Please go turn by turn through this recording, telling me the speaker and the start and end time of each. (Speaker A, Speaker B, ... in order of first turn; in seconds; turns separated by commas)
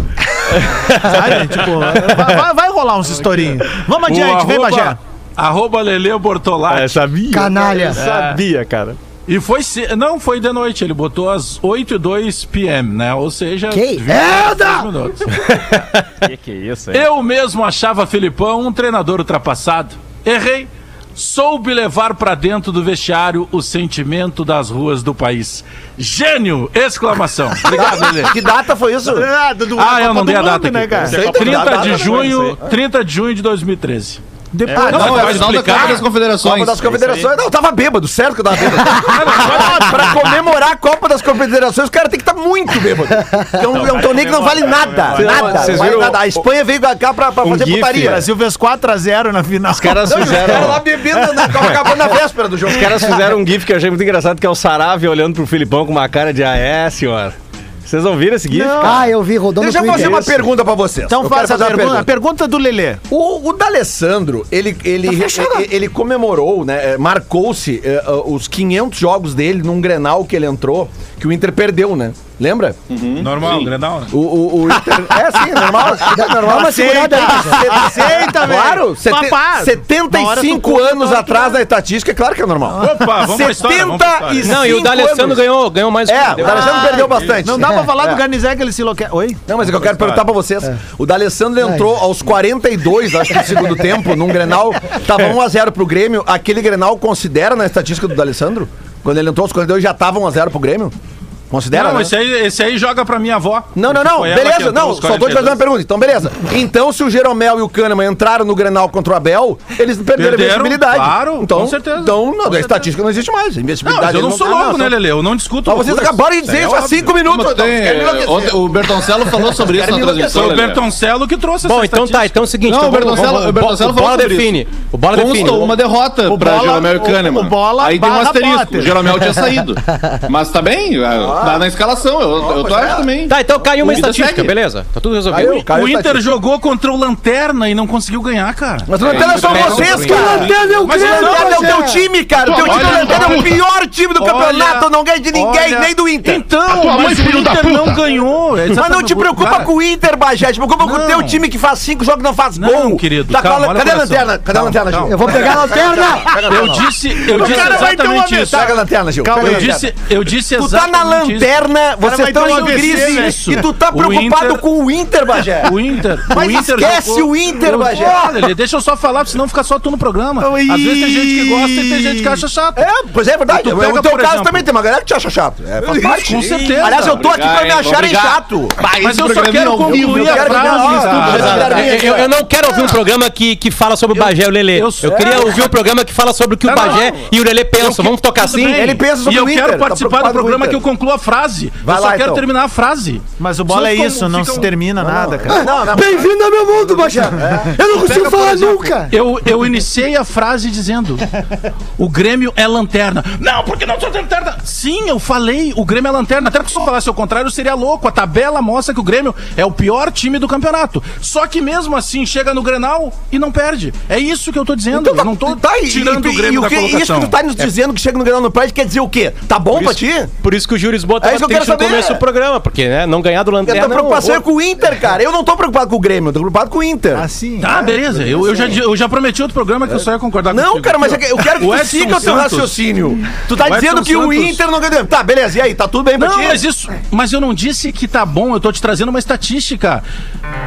Speaker A: 0.5-5.0, Speaker B: 0.6-2.4, Speaker C: 4.0-7.0, Speaker B: 6.7-9.0, Speaker D: 7.3-8.0, Speaker C: 9.3-15.6, Speaker D: 13.7-14.9, Speaker E: 16.2-17.1, Speaker C: 16.9-28.4, Speaker F: 27.7-29.3, Speaker A: 29.1-31.2, Speaker C: 29.8-34.2, Speaker F: 31.0-32.7, Speaker E: 31.0-32.6, Speaker A: 34.5-35.3, Speaker C: 34.8-36.0, Speaker F: 34.8-48.2, Speaker G: 34.9-36.9, Speaker E: 36.8-37.3, Speaker C: 38.9-40.1, Speaker A: 39.1-40.3, Speaker E: 43.6-46.1, Speaker B: 45.1-46.4, Speaker B: 47.4-48.2, Speaker A: 48.0-51.7, Speaker B: 49.7-50.9, Speaker F: 50.0-53.2, Speaker B: 52.7-57.3, Speaker B: 57.9-59.1, Speaker A: 58.5-59.0, Speaker D: 58.8-60.5, Speaker F: 59.6-62.1, Speaker A: 61.1-63.0, Speaker F: 63.1-72.8, Speaker G: 72.9-73.7, Speaker C: 73.2-74.1, Speaker F: 74.1-85.5, Speaker D: 76.1-77.8, Speaker A: 76.4-81.6, Speaker C: 82.8-84.6, Speaker H: 84.4-87.0, Speaker F: 86.0-88.2, Speaker A: 86.4-89.4, Speaker C: 87.0-87.4, Speaker F: 89.5-100.9, Speaker C: 89.7-90.2, Speaker F: 101.5-102.1, Speaker C: 101.7-105.6, Speaker F: 103.7-114.9, Speaker C: 110.1-112.9, Speaker C: 113.8-117.1, Speaker F: 115.7-118.7, Speaker G: 117.2-120.8, Speaker F: 119.4-120.7, Speaker C: 120.2-122.5, Speaker H: 121.6-125.8, Speaker G: 122.6-124.6, Speaker G: 125.1-134.5, Speaker A: 126.2-129.1, Speaker F: 131.2-131.7, Speaker F: 132.4-133.1, Speaker H: 133.3-135.6, Speaker F: 135.3-136.4, Speaker C: 135.3-141.8, Speaker F: 138.9-146.4, Speaker G: 139.0-139.4, Speaker H: 139.0-140.4, Speaker D: 140.0-142.1, Speaker C: 142.5-143.6, Speaker C: 144.2-149.7, Speaker F: 148.7-159.9, Speaker C: 150.8-151.4, Speaker C: 152.5-155.6, Speaker D: 155.1-156.8, Speaker C: 156.3-158.7, Speaker A: 157.2-159.8, Speaker C: 159.3-161.5, Speaker F: 160.4-168.5, Speaker A: 162.0-163.6, Speaker C: 162.3-164.7, Speaker C: 165.4-172.8, Speaker A: 170.4-172.4, Speaker F: 172.8-182.3, Speaker C: 173.5-174.7, Speaker C: 175.8-177.3, Speaker G: 176.9-181.8, Speaker C: 178.9-181.9, Speaker A: 180.7-181.6, Speaker H: 181.2-188.9, Speaker C: 184.1-185.6, Speaker F: 185.0-185.5, Speaker C: 186.6-187.1, Speaker F: 186.7-187.1, Speaker C: 187.8-194.7, Speaker F: 188.6-190.8, Speaker F: 191.8-192.4, Speaker A: 193.4-195.7, Speaker F: 195.0-197.7, Speaker D: 195.5-199.1, Speaker C: 197.8-201.3, Speaker C: 202.0-217.4, Speaker F: 214.9-220.3, Speaker H: 219.8-224.4, Speaker F: 221.2-222.2, Speaker F: 223.6-227.3, Speaker A: 227.1-227.9, Speaker C: 227.6-232.8, Speaker F: 228.2-228.8, Speaker F: 230.5-236.6, Speaker C: 233.4-234.6, Speaker C: 236.2-240.0